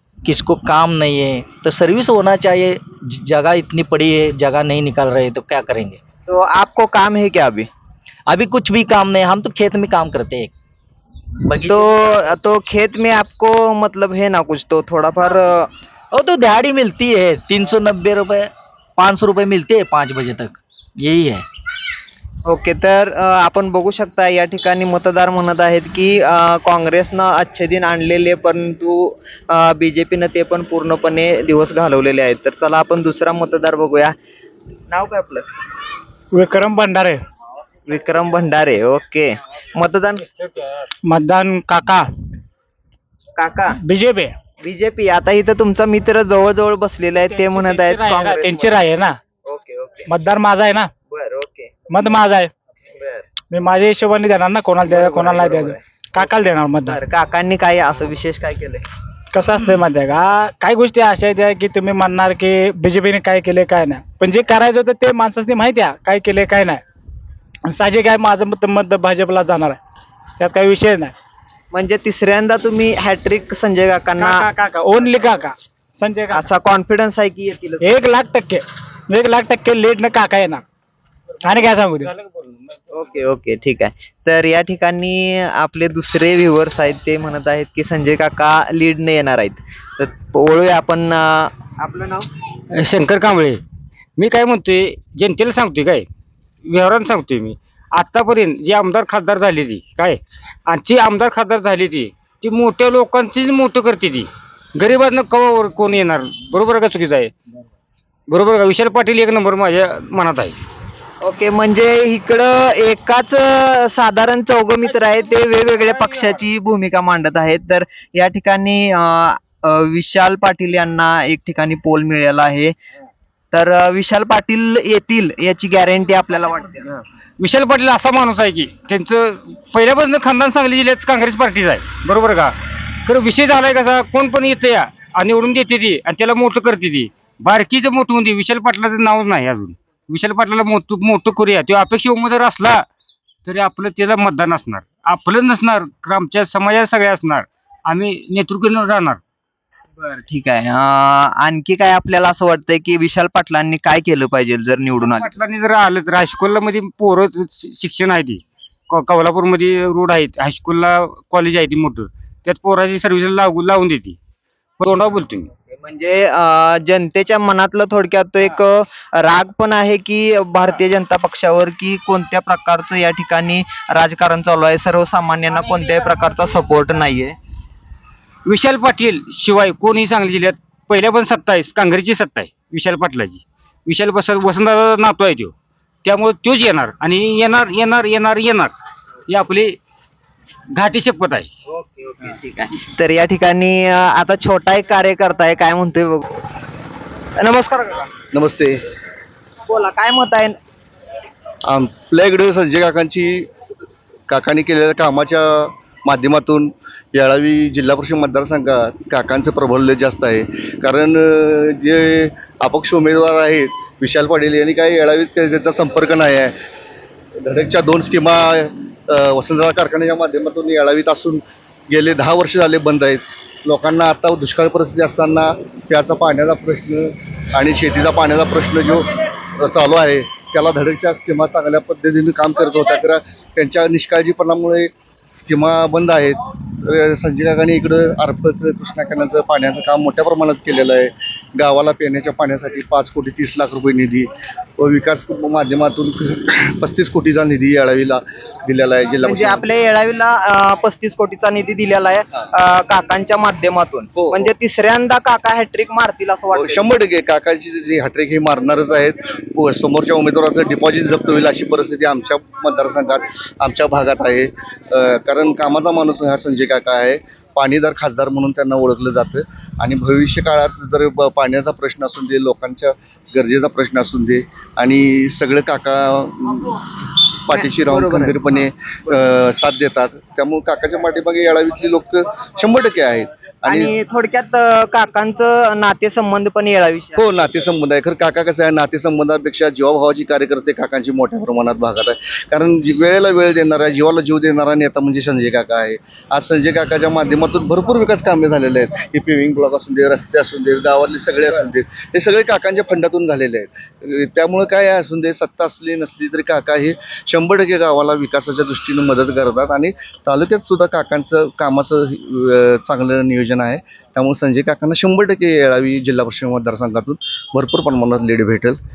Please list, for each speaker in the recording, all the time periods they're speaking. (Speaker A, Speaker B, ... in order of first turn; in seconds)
Speaker A: 0.2-6.0, 8.3-10.5, 11.5-11.9, 16.1-21.4
Speaker B: 6.3-7.7, 11.7-15.7, 22.5-34.1, 34.9-35.5, 37.9-40.2, 43.4-43.8, 44.6-48.8, 49.5-50.1, 51.1-51.7, 52.9-53.2, 54.9-55.8, 56.9-58.8, 71.7-74.5, 76.3-77.9, 82.9-92.3, 111.2-122.8, 123.5-127.0, 150.0-155.3, 165.8-177.4, 191.7-196.3, 197.4-198.1, 199.7-200.6, 249.2-256.9, 277.5-278.4, 283.7-287.2
Speaker C: 36.4-37.2, 41.0-42.1, 43.8-44.3, 48.0-49.2, 50.1-50.9, 51.9-52.5, 53.5-57.0, 59.3-66.8, 67.7-69.8, 70.4-71.1, 74.2-76.5, 77.8-80.6, 81.4-82.1
Speaker D: 47.6-48.0, 82.2-82.5, 92.7-93.6, 94.2-96.1, 96.7-107.3, 108.3-110.6, 127.4-142.8, 143.4-149.2, 155.1-164.2, 164.8-165.5, 178.5-188.7, 189.3-189.8, 190.7-191.5
Speaker E: 198.3-198.8, 201.7-203.5, 204.3-216.6, 217.4-249.7, 254.2-254.5, 256.5-276.9, 277.4-283.9, 287.2-318.8